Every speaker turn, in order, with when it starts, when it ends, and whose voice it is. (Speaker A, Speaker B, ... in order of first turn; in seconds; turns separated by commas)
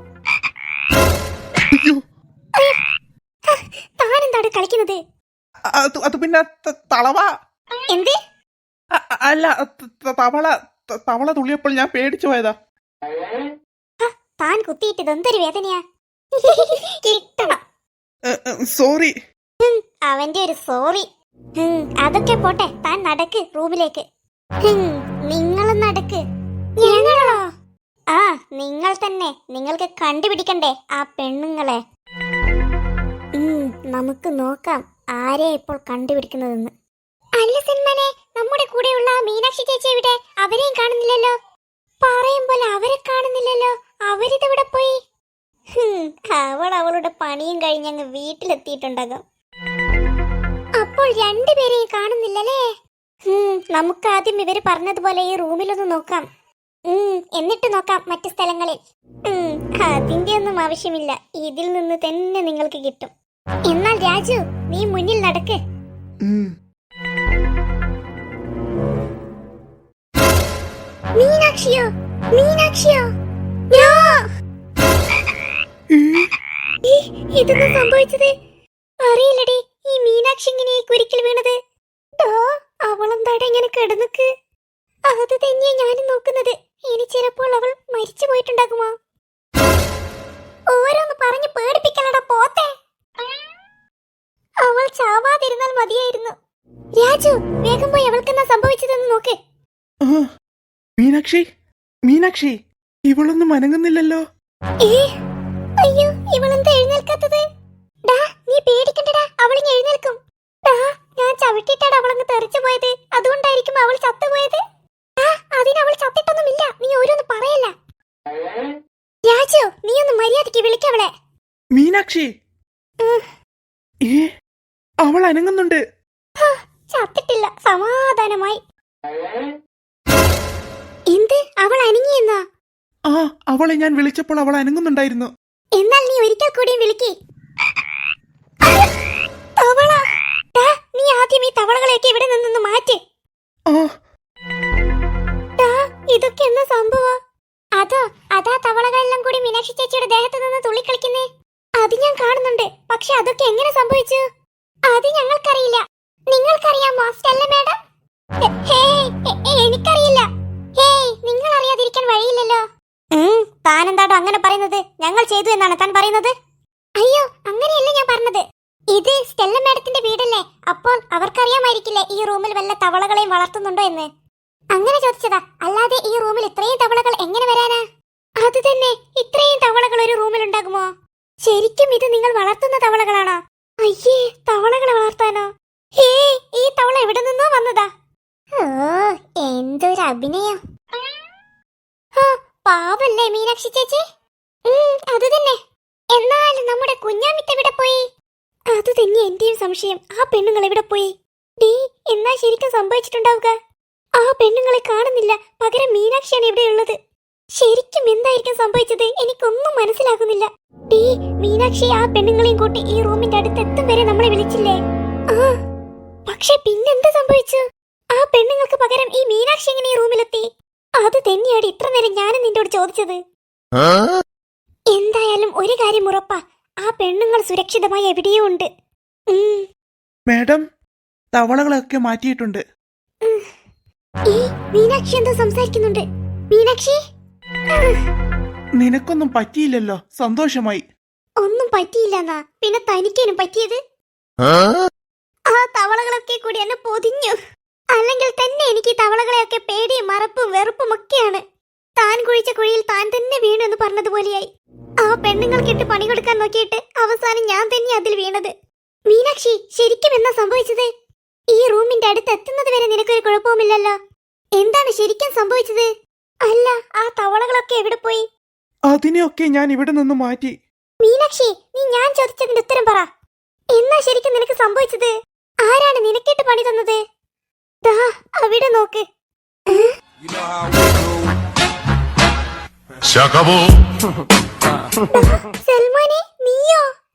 Speaker A: 1.7-2.0, Speaker B: 3.5-5.0, Speaker A: 5.8-7.3, Speaker B: 7.9-8.2, Speaker A: 8.9-12.5, Speaker B: 14.0-15.8, Speaker B: 16.4-17.6, Speaker A: 18.3-19.1, Speaker B: 19.6-21.1, Speaker B: 21.6-24.0, Speaker B: 24.6-26.2, Speaker B: 26.8-27.4, Speaker B: 28.1-31.8, Speaker B: 33.4-36.7, Speaker B: 37.4-41.3, Speaker B: 42.0-44.9, Speaker B: 45.8-49.2, Speaker B: 50.8-52.6, Speaker B: 53.3-56.2, Speaker B: 56.9-63.1, Speaker B: 63.7-65.6, Speaker A: 66.2-66.5, Speaker B: 71.2-73.1, Speaker B: 73.7-74.2, Speaker A: 75.9-76.3, Speaker B: 76.8-78.3, Speaker B: 79.0-81.5, Speaker B: 82.2-84.3, Speaker B: 85.1-88.9, Speaker B: 90.7-92.7, Speaker B: 94.6-96.3, Speaker B: 97.0-99.3, Speaker A: 101.0-101.5, Speaker A: 102.1-102.6, Speaker A: 103.1-104.2, Speaker B: 104.8-105.1, Speaker B: 105.8-107.4, Speaker B: 108.1-114.6, Speaker B: 115.2-117.7, Speaker B: 119.3-121.1, Speaker A: 121.7-122.3, Speaker B: 123.0-123.3, Speaker A: 125.0-125.8, Speaker B: 126.4-128.6, Speaker B: 131.1-132.4, Speaker A: 133.1-135.3, Speaker B: 135.8-137.1, Speaker B: 138.6-138.9, Speaker B: 139.6-140.0, Speaker B: 140.5-143.0, Speaker B: 145.6-147.2, Speaker B: 147.8-151.3, Speaker B: 151.8-154.2, Speaker B: 154.9-157.8, Speaker B: 158.4-160.3, Speaker B: 160.8-162.6, Speaker B: 163.2-166.3, Speaker B: 167.0-174.1, Speaker B: 174.7-177.8, Speaker B: 178.4-180.9, Speaker B: 181.4-187.9, Speaker B: 188.6-190.6, Speaker B: 192.2-194.0, Speaker B: 194.7-195.6, Speaker B: 196.1-198.0, Speaker B: 198.7-201.1, Speaker B: 201.6-203.5, Speaker B: 204.2-207.0, Speaker B: 207.6-214.8, Speaker B: 216.3-217.6, Speaker B: 218.1-220.4, Speaker B: 221.0-223.2, Speaker B: 224.9-228.7, Speaker B: 229.3-229.7, Speaker A: 230.3-230.7, Speaker A: 231.3-232.6, Speaker B: 234.3-237.0, Speaker B: 237.7-238.0, Speaker A: 238.8-240.8, Speaker B: 241.4-243.8, Speaker B: 245.5-247.4, Speaker B: 247.9-251.4, Speaker B: 252.0-254.5, Speaker B: 255.0-258.5, Speaker B: 259.1-260.9, Speaker B: 261.5-264.0, Speaker B: 264.6-265.9, Speaker B: 266.5-268.2, Speaker A: 268.9-270.5, Speaker B: 271.0-273.1, Speaker B: 273.7-275.1, Speaker B: 275.6-277.0, Speaker B: 277.8-279.0, Speaker B: 285.1-286.8